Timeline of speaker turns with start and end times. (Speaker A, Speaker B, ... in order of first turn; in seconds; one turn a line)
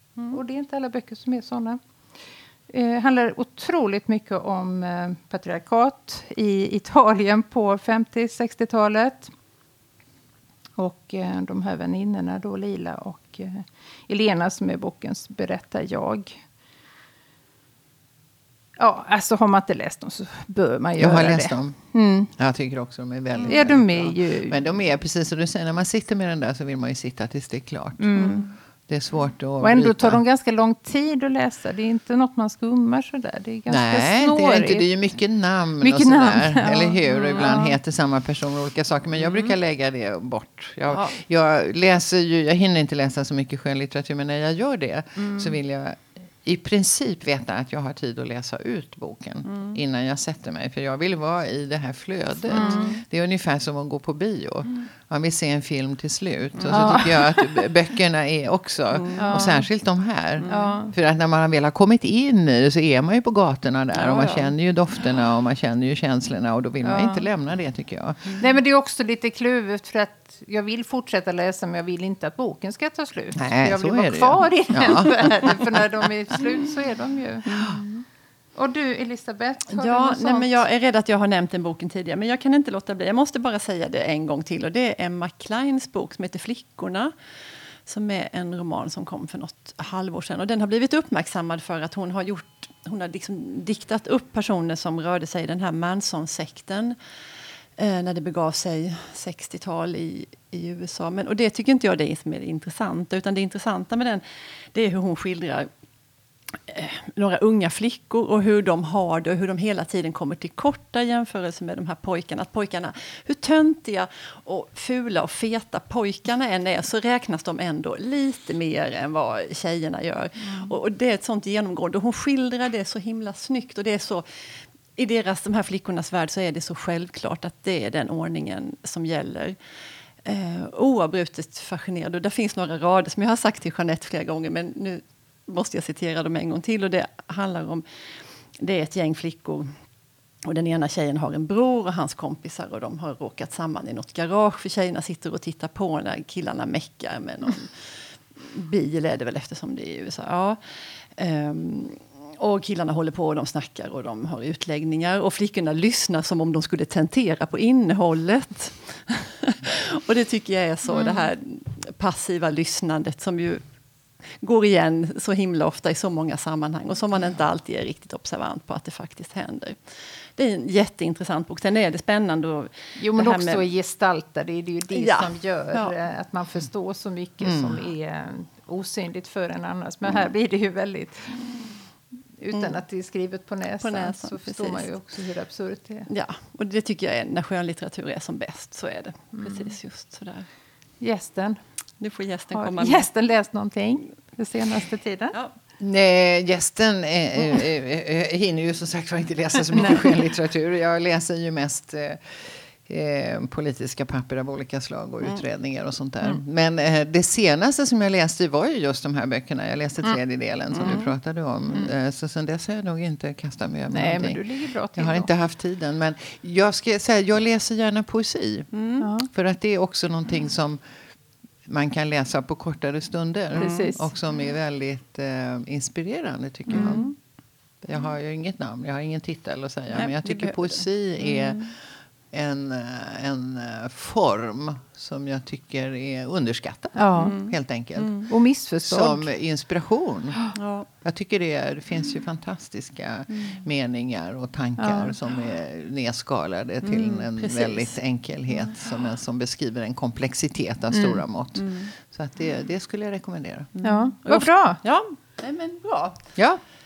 Speaker A: 0.3-1.8
Speaker A: 2.7-9.3
Speaker A: 10.8-16.4
Speaker A: 18.8-22.3
Speaker B: 21.0-30.2
Speaker A: 23.5-24.6
Speaker A: 28.0-28.5
Speaker C: 28.2-28.5
Speaker A: 29.6-34.9
Speaker B: 33.7-68.4
Speaker A: 35.8-37.8
Speaker C: 37.1-37.6
Speaker C: 39.2-39.5
Speaker C: 40.9-41.2
Speaker C: 49.5-49.8
Speaker A: 52.5-53.0
Speaker C: 52.5-53.0
Speaker C: 56.5-57.1
Speaker A: 56.7-57.2
Speaker C: 58.9-59.5
Speaker A: 59.2-59.7
Speaker C: 60.4-60.8
Speaker A: 60.5-60.9
Speaker C: 63.9-64.5
Speaker A: 66.8-67.3
Speaker A: 68.4-77.9
Speaker B: 73.3-75.8
Speaker C: 77.5-77.8
Speaker A: 78.5-80.6
Speaker C: 79.7-87.1
Speaker C: 87.9-97.0
Speaker C: 97.8-105.7
Speaker C: 106.7-124.3
Speaker A: 120.4-120.7
Speaker C: 125.0-129.6
Speaker C: 130.2-137.8
Speaker C: 138.6-139.7
Speaker C: 140.4-150.6
Speaker C: 151.2-163.6
Speaker A: 160.9-161.3
Speaker C: 164.4-169.8
Speaker C: 170.3-173.6
Speaker A: 173.0-181.5
Speaker C: 174.9-175.9
Speaker B: 177.4-177.8
Speaker A: 182.4-186.1
Speaker C: 182.5-182.8
Speaker C: 183.8-184.9
Speaker C: 186.1-190.5
Speaker A: 189.3-189.7
Speaker A: 191.0-191.6
Speaker C: 192.0-193.1
Speaker A: 192.5-195.4
Speaker B: 195.8-214.4
Speaker A: 199.7-200.2
Speaker C: 210.7-211.1
Speaker A: 213.9-215.3
Speaker B: 214.9-218.7
Speaker C: 218.7-219.1
Speaker A: 219.0-219.3
Speaker B: 219.3-220.8
Speaker B: 221.7-227.1
Speaker C: 223.6-223.9
Speaker A: 223.6-224.1
Speaker C: 226.7-227.2
Speaker A: 226.7-227.1
Speaker B: 227.8-231.8
Speaker C: 229.9-231.7
Speaker B: 232.3-238.3
Speaker A: 236.9-237.3
Speaker C: 237.2-238.3
Speaker A: 238.3-239.3
Speaker B: 238.8-253.7
Speaker C: 240.5-240.9
Speaker C: 243.3-243.6
Speaker A: 244.8-245.2
Speaker C: 246.8-248.0
Speaker C: 250.9-251.9
Speaker C: 253.8-256.2
Speaker A: 253.8-254.8